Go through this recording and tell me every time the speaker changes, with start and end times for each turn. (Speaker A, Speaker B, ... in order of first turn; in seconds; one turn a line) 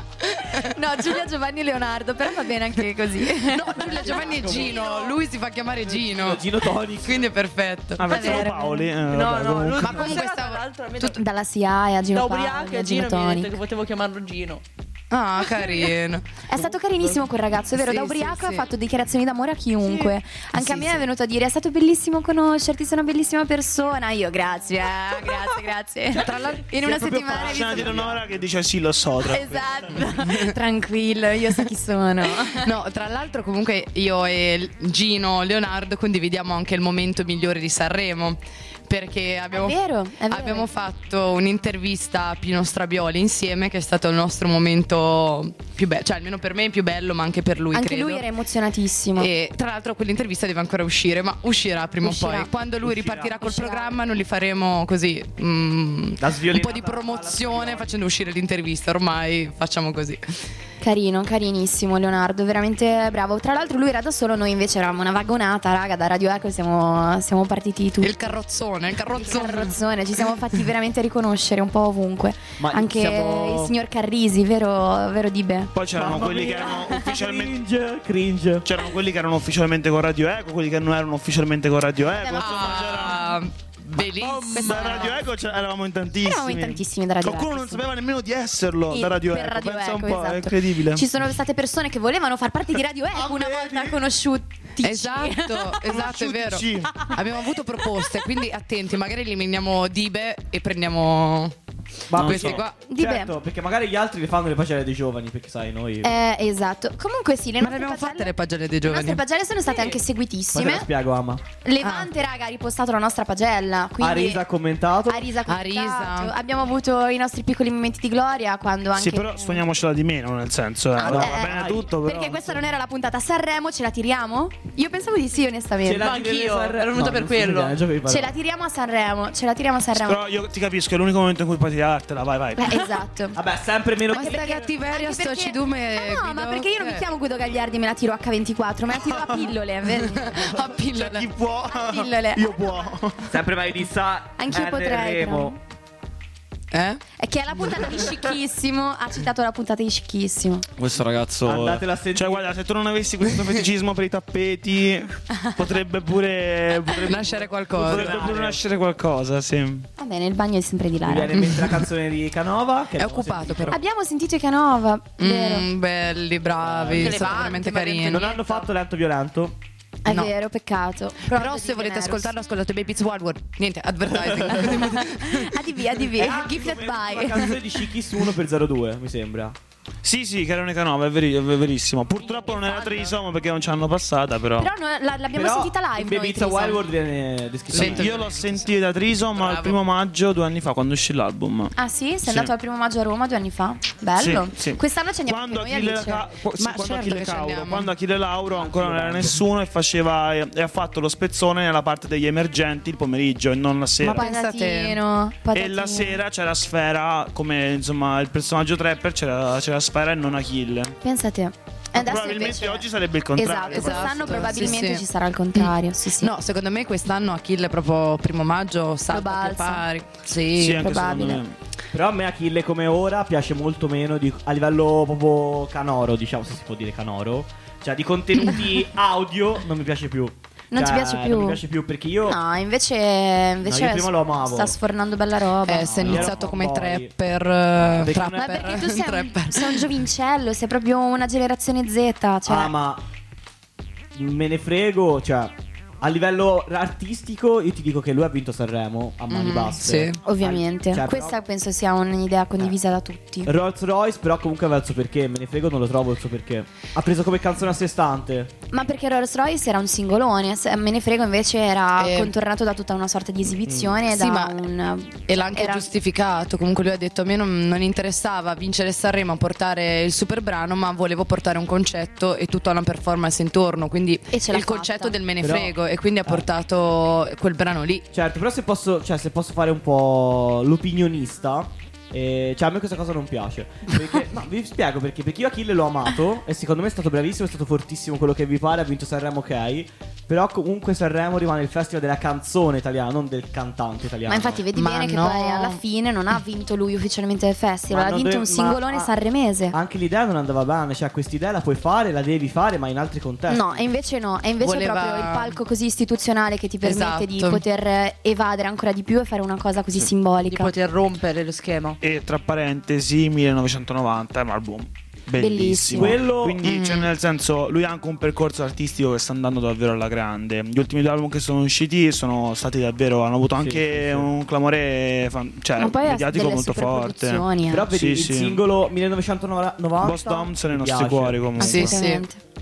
Speaker A: 0.2-0.7
Speaker B: 0.5-5.2
Speaker A: 3.5-6.5
Speaker C: 4.2-4.8
Speaker C: 5.8-7.3
Speaker A: 7.0-8.1
Speaker D: 8.0-10.1
Speaker B: 8.1-8.9
Speaker E: 8.1-8.5
Speaker E: 9.1-11.2
Speaker A: 9.8-11.2
Speaker B: 11.1-13.5
Speaker E: 12.1-14.6
Speaker A: 15.1-16.3
Speaker B: 16.5-28.1
Speaker A: 17.8-18.7
Speaker A: 20.6-21.1
Speaker C: 26.2-28.3
Speaker D: 27.0-30.0
Speaker B: 29.2-32.7
Speaker A: 32.5-48.2
Speaker B: 39.5-40.7
Speaker B: 47.7-49.3
Speaker A: 49.2-60.2
Speaker B: 52.0-52.5
Speaker C: 52.8-53.3
Speaker B: 53.4-54.0
Speaker C: 56.2-57.9
Speaker B: 60.8-68.2
Speaker A: 68.0-69.8
Speaker B: 69.1-75.7
Speaker C: 72.6-73.8
Speaker D: 75.7-77.5
Speaker C: 75.9-78.7
Speaker D: 78.6-83.4
Speaker B: 82.2-83.1
Speaker A: 82.3-85.2
Speaker D: 84.2-91.1
Speaker B: 84.5-85.2
Speaker B: 86.2-87.9
Speaker B: 88.9-95.8
Speaker D: 93.1-94.0
Speaker A: 94.8-101.5
Speaker D: 95.8-97.1
Speaker B: 98.0-98.2
Speaker C: 102.1-106.1
Speaker D: 102.2-102.6
Speaker A: 102.2-102.8
Speaker B: 102.9-103.3
Speaker B: 106.0-108.3
Speaker A: 107.6-109.2
Speaker B: 108.9-110.9
Speaker C: 110.5-111.4
Speaker B: 111.6-114.4
Speaker A: 111.8-112.1
Speaker C: 114.0-115.3
Speaker B: 115.1-119.7
Speaker A: 115.5-116.3
Speaker D: 119.0-122.6
Speaker B: 121.0-126.1
Speaker C: 121.0-121.9
Speaker C: 125.8-128.3
Speaker E: 126.0-127.8
Speaker B: 128.1-130.3
Speaker D: 129.9-132.9
Speaker B: 132.6-133.4
Speaker C: 133.3-134.7
Speaker A: 134.1-137.1
Speaker B: 134.1-140.5
Speaker D: 139.0-139.5
Speaker A: 140.0-141.3
Speaker D: 140.5-143.3
Speaker B: 141.7-142.7
Speaker C: 143.3-145.6
Speaker B: 144.4-145.6
Speaker A: 146.7-147.0
Speaker B: 147.2-150.7
Speaker D: 150.8-159.9
Speaker C: 151.4-152.5
Speaker A: 157.1-158.1
Speaker C: 157.8-158.6
Speaker B: 160.0-161.6
Speaker C: 161.0-163.8
Speaker A: 161.4-161.7
Speaker A: 163.0-163.8
Speaker B: 163.7-165.7
Speaker A: 165.2-168.3
Speaker C: 166.6-167.4
Speaker E: 166.9-168.7
Speaker C: 168.1-169.6
Speaker B: 170.1-172.3
Speaker A: 170.1-170.3
Speaker A: 171.2-175.6
Speaker C: 174.1-174.9
Speaker B: 174.6-177.6
Speaker C: 176.1-179.6
Speaker D: 180.0-184.7
Speaker E: 182.5-183.1
Speaker B: 184.6-186.9
Speaker C: 185.3-188.2
Speaker A: 187.7-188.7
Speaker D: 187.7-192.5
Speaker A: 189.3-189.8
Speaker B: 191.8-196.2
Speaker D: 194.2-204.3
Speaker A: 196.6-197.9
Speaker C: 198.6-199.4
Speaker B: 204.0-206.2
Speaker A: 204.0-205.0
Speaker D: 205.5-211.0
Speaker B: 211.0-216.3
Speaker D: 212.0-214.9
Speaker A: 213.7-221.0
Speaker B: 219.1-219.8
Speaker D: 220.5-221.6
Speaker B: 220.8-221.4
Speaker C: 221.9-232.4
Speaker B: 230.7-231.6
Speaker B: 232.2-236.3
Speaker C: 233.6-234.8
Speaker A: 235.7-239.9
Speaker C: 235.9-237.1
Speaker C: 237.8-238.9
Speaker B: 238.3-242.7
Speaker C: 242.4-243.0
Speaker C: 244.1-251.4
Speaker A: 249.3-250.2
Speaker B: 250.2-253.5
Speaker C: 253.4-258.5
Speaker B: 258.7-265.9
Speaker A: 262.0-262.3
Speaker C: 263.6-264.0
Speaker A: 264.1-264.6
Speaker A: 265.3-278.1
Speaker B: 274.3-275.2
Speaker C: 275.4-276.4
Speaker C: 278.1-294.6
Speaker B: 294.3-299.8
Speaker A: 294.7-295.8
Speaker C: 297.9-299.1
Speaker C: 299.7-303.7
Speaker B: 303.5-310.7
Speaker A: 304.6-305.6
Speaker A: 306.8-307.6
Speaker E: 310.5-312.0
Speaker D: 312.0-328.6
Speaker B: 315.4-316.2
Speaker C: 315.9-316.6
Speaker A: 316.6-317.1
Speaker C: 323.6-324.3
Speaker B: 325.8-327.9
Speaker C: 327.7-331.9
Speaker D: 330.0-332.0
Speaker A: 331.6-332.3
Speaker B: 331.6-332.4